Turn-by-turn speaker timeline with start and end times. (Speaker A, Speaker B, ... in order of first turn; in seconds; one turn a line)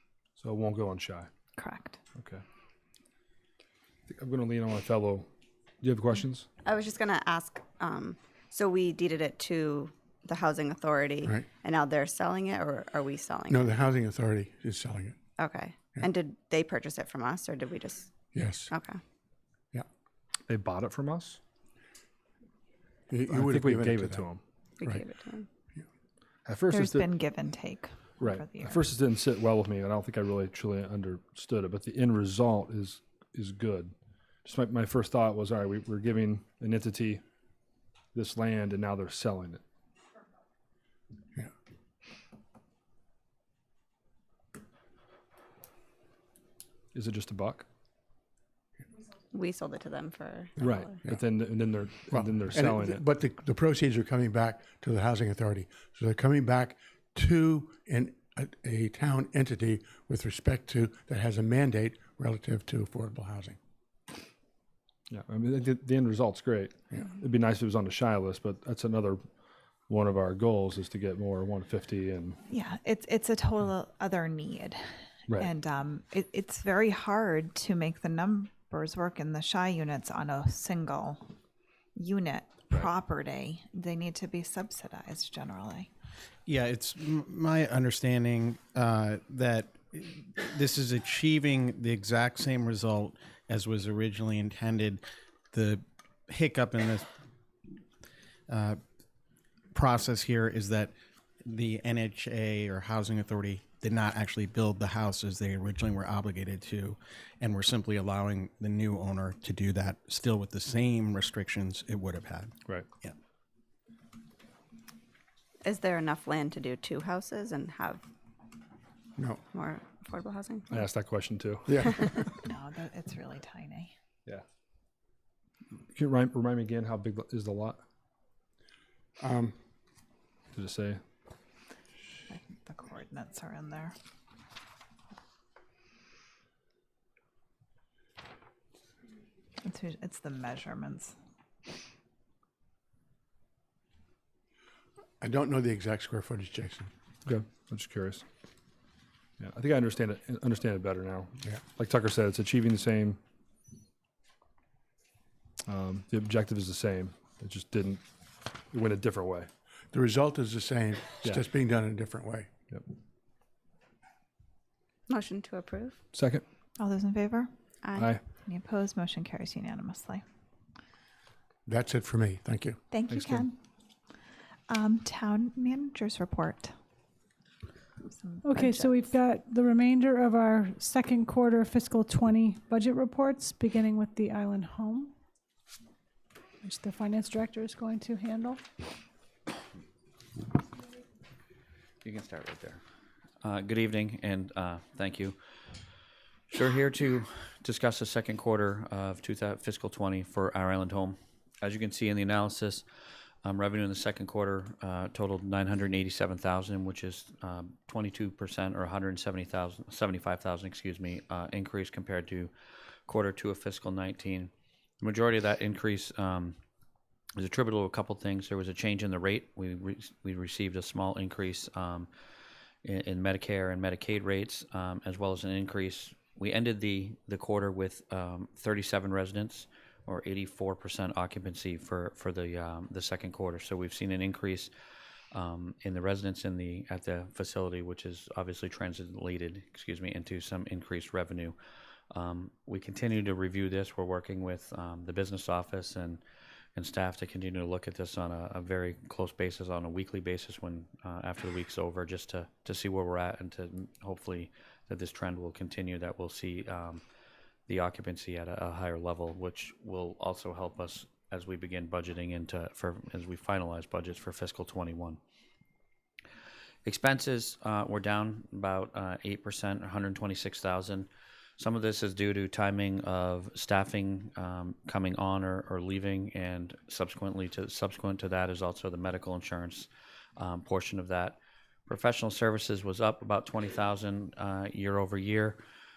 Speaker A: 0.4-1.3
Speaker B: 1.6-2.0
Speaker A: 2.2-2.4
Speaker A: 4.1-5.3
Speaker A: 5.8-6.5
Speaker C: 6.6-13.8
Speaker D: 13.5-15.2
Speaker C: 15.4-18.1
Speaker D: 18.3-18.8
Speaker C: 18.7-19.0
Speaker A: 20.5-21.4
Speaker D: 23.1-24.3
Speaker A: 23.3-24.4
Speaker C: 24.8-25.5
Speaker D: 24.8-25.1
Speaker A: 26.5-27.1
Speaker B: 26.7-28.8
Speaker A: 28.2-37.2
Speaker A: 38.1-39.6
Speaker A: 46.9-47.7
Speaker C: 49.3-51.0
Speaker D: 50.6-51.3
Speaker A: 50.6-53.0
Speaker D: 52.1-63.6
Speaker A: 65.1-69.3
Speaker A: 69.9-72.4
Speaker B: 72.5-81.3
Speaker B: 82.0-85.9
Speaker E: 86.5-97.1
Speaker E: 98.5-98.8
Speaker E: 99.7-100.9
Speaker E: 101.5-113.2
Speaker C: 115.6-118.0
Speaker D: 119.2-119.4
Speaker C: 119.5-120.9
Speaker A: 120.7-122.1
Speaker D: 121.7-122.0
Speaker B: 122.4-123.9
Speaker A: 125.9-127.8
Speaker D: 129.2-129.6
Speaker A: 130.5-131.0
Speaker B: 132.3-134.0
Speaker B: 139.6-141.2
Speaker D: 145.2-146.9
Speaker A: 147.2-148.2
Speaker A: 149.4-153.2
Speaker A: 155.7-158.0
Speaker A: 158.7-159.5
Speaker D: 159.9-162.5
Speaker C: 165.1-166.0
Speaker A: 166.1-166.4
Speaker B: 166.8-167.5
Speaker C: 167.8-168.1
Speaker B: 168.4-170.2
Speaker D: 171.7-172.8
Speaker B: 172.9-173.6
Speaker A: 173.1-173.4
Speaker B: 174.7-176.8
Speaker B: 178.1-179.2
Speaker F: 178.4-185.1
Speaker F: 186.6-188.6
Speaker G: 192.0-192.8
Speaker G: 193.4-195.4
Speaker G: 196.5-202.8
Speaker G: 203.4-212.5
Speaker G: 213.1-214.5
Speaker G: 215.0-216.6
Speaker G: 217.4-222.1
Speaker G: 222.8-234.7
Speaker G: 235.3-241.6
Speaker G: 242.1-246.2
Speaker G: 246.8-257.0
Speaker G: 257.7-265.2
Speaker G: 266.9-285.6